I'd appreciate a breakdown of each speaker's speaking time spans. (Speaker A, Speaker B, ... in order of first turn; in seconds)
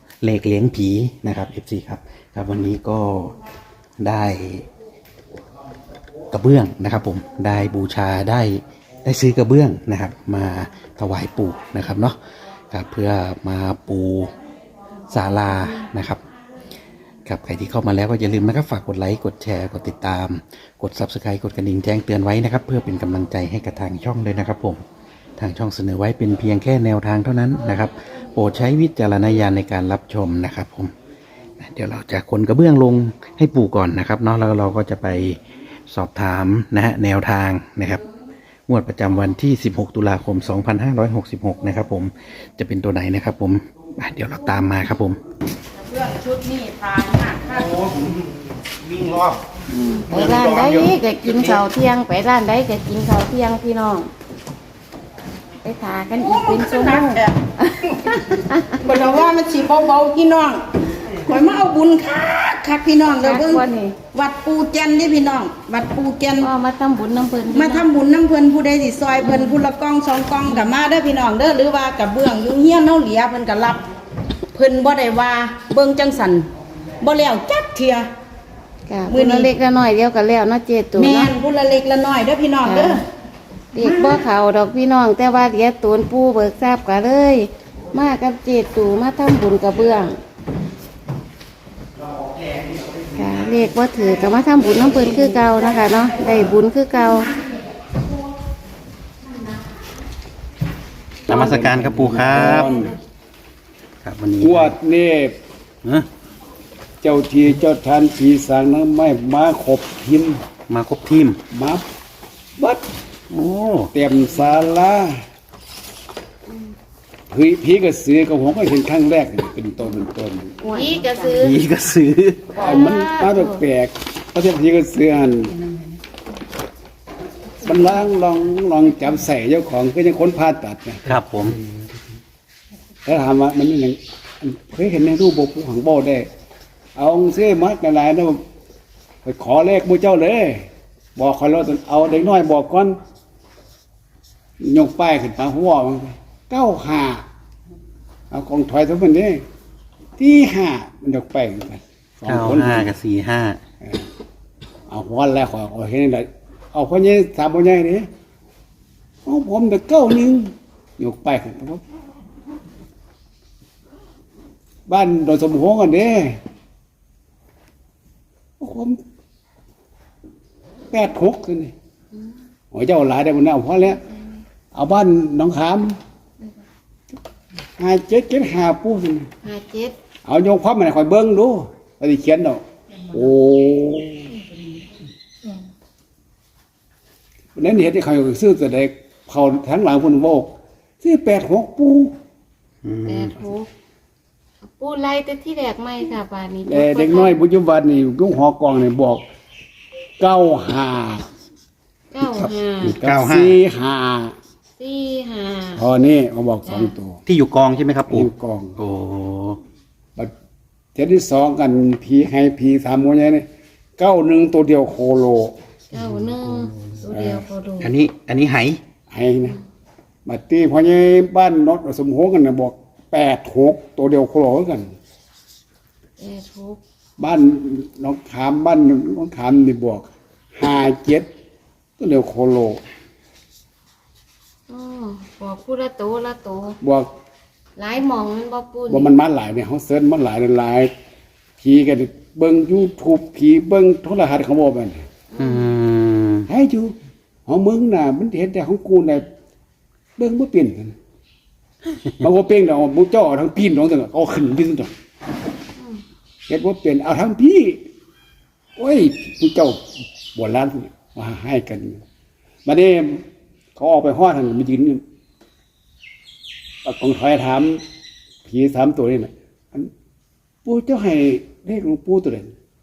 Speaker A: 0.2-3.4, 4.0-4.7, 6.3-12.2, 12.7-14.3, 15.1-16.2, 17.3-24.8, 25.4-30.9, 31.6-38.0, 38.7-45.2, 47.6-48.3, 48.8-49.4, 50.1-50.9, 101.3-102.7, 104.0-104.8, 110.7-111.4, 113.3-113.9, 121.3-122.6, 131.1-131.6, 152.3-153.6, 192.8-193.4, 202.8-203.6, 207.3-209.6, 216.0-216.7, 217.8-218.8, 245.4-246.5
Speaker B: 45.7-47.8, 56.2-57.4, 58.8-66.5, 67.5-73.9, 74.5-76.5, 77.0-78.1, 79.1-79.5, 80.9-83.0, 83.8-84.2
Speaker C: 49.7-54.1, 55.6-58.8, 63.0-64.0, 66.4-67.9, 69.2-69.6, 78.9-81.3, 82.6-83.0, 83.7-90.2, 93.2-97.3, 120.6-121.6, 122.6-123.6, 179.4-179.9, 193.1-193.7, 194.7-197.4, 202.1-203.0, 204.8-205.8, 206.7-206.9, 215.9-217.9, 226.2-226.8, 234.7-236.8, 237.8-239.1, 245.3-245.7
Speaker D: 101.3-102.9, 104.4-105.4, 107.0-110.4, 111.5-111.8, 112.6-112.9, 113.9-115.2, 117.3-120.6, 122.6-125.6, 127.6-131.1, 133.1-136.3, 136.9-138.4, 139.2-143.0, 144.6-147.2, 148.3-149.4, 150.2-152.9, 153.8-154.1, 154.9-158.1, 159.2-161.8, 164.9-166.4, 168.6-169.0, 170.9-171.7, 172.7-174.0, 174.7-176.0, 177.8-179.3, 180.2-184.4, 187.6-192.1, 196.7-199.2, 200.2-201.3, 202.2-204.3, 205.8-207.2, 208.1-208.8, 210.9-213.5, 214.0-215.6, 217.1-217.5, 219.1-219.6, 220.3-224.9, 227.2-231.3, 232.0-232.8, 236.8-237.1, 238.9-240.9, 241.6-245.1, 246.5-246.9, 247.5-249.3, 250.2-251.0, 252.2-254.9, 256.5-257.8, 258.8-262.0, 262.6-263.2, 263.8-265.0, 266.9-267.8, 268.4-269.9, 270.6-272.5